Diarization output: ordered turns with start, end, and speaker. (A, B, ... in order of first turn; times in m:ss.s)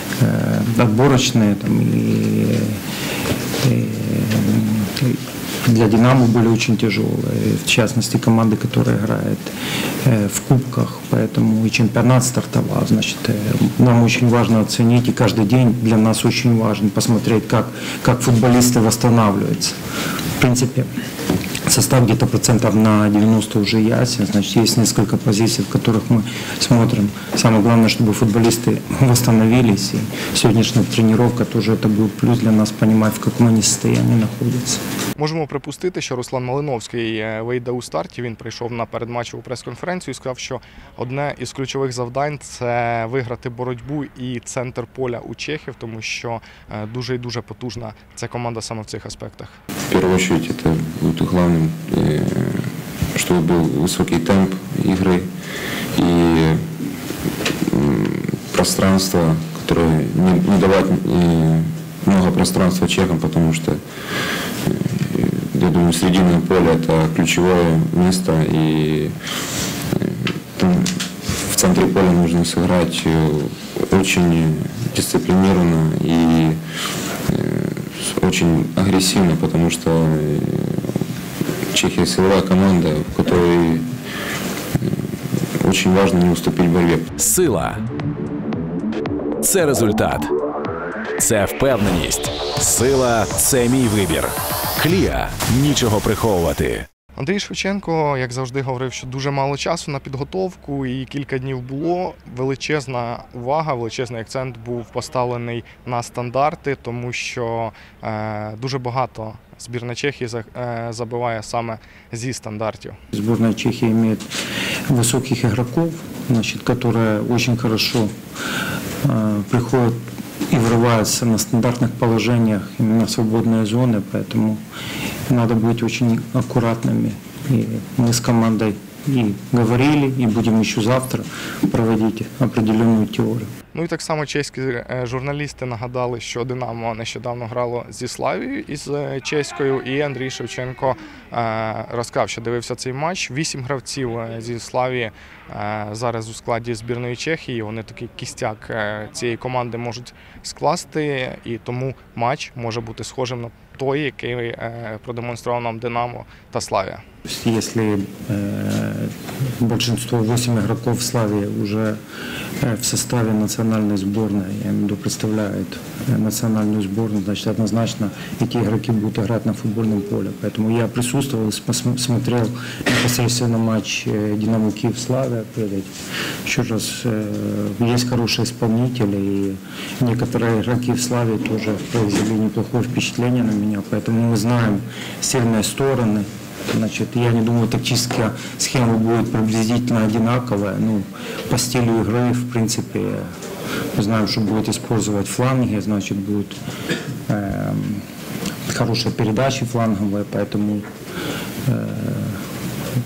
0:00.2-0:02.8 A
0:03.6-0:19.8 A
0:20.4-0:20.9 A
0:21.6-0:34.8 A
0:35.2-0:49.6 B
0:49.9-0:52.6 C
0:53.2-0:55.3 C
0:55.9-0:56.6 C
0:57.7-1:03.8 C
1:04.6-1:09.1 C
1:09.9-1:16.6 C
1:17.3-1:20.9 C
1:21.7-1:23.9 C
1:25.6-1:27.1 C
1:27.2-1:27.8 D
1:29.4-1:30.3 D
1:31.2-1:36.8 D
1:37.2-1:53.0 B
1:53.1-1:54.3 A
1:54.9-1:58.1 A
1:59.0-2:04.6 A
2:05.3-2:13.5 A
2:13.7-2:37.0 B
2:37.2-2:42.0 A
2:42.6-2:55.9 A
2:56.4-3:13.3 A
3:13.9-3:16.6 A
3:17.3-3:18.0 A
3:18.7-3:20.8 A
3:21.6-3:22.4 A